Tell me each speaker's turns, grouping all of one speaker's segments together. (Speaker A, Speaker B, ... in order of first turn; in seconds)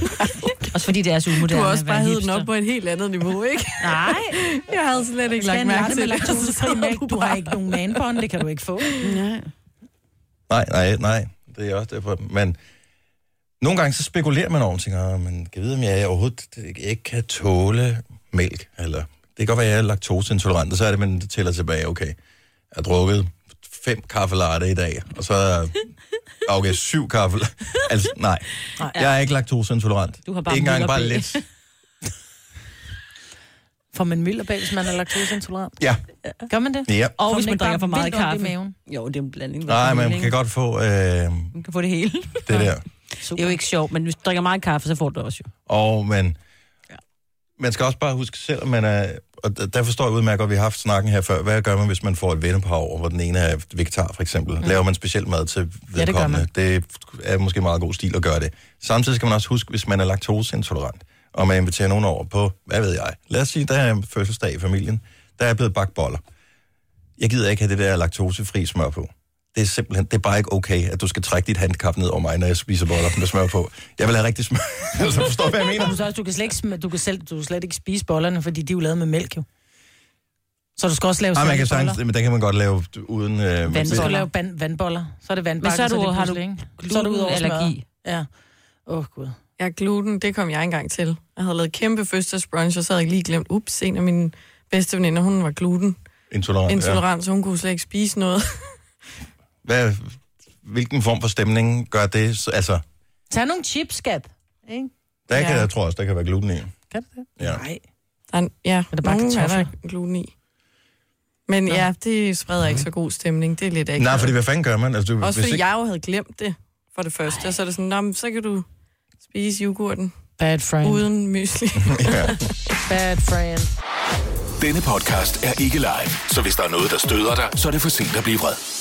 Speaker A: 0.6-2.5, 3.9-4.2, 9.0-9.5, 30.3-31.4, 37.2-40.3, 41.5-42.7, 43.3-45.5, 83.7-84.3, 85.6-87.8
Speaker B: 1.4-7.8, 89.6-96.0, 96.7-98.7, 108.3-110.3, 111.5-114.3, 115.2-118.6, 119.2-120.1, 120.8-122.4
Speaker C: 3.8-4.3, 5.3-8.9, 33.9-35.8, 36.5-38.7, 43.2-43.6, 55.9-56.5, 75.7-79.4, 80.8-82.0, 83.8-88.3, 88.9-89.4, 103.3-105.6, 106.9-107.8, 108.9-109.7, 120.4-121.1, 122.8-123.7
Speaker D: 10.5-12.6, 13.6-22.1, 22.7-25.8, 26.4-31.4, 36.9-37.1, 39.7-41.5, 42.5-42.8, 45.6-46.4, 47.6-66.2, 67.2-76.0, 81.3-84.1, 96.3-97.0, 99.6-102.8, 105.3-106.7, 114.0-115.6, 121.8-122.4
Speaker E: 124.6-128.6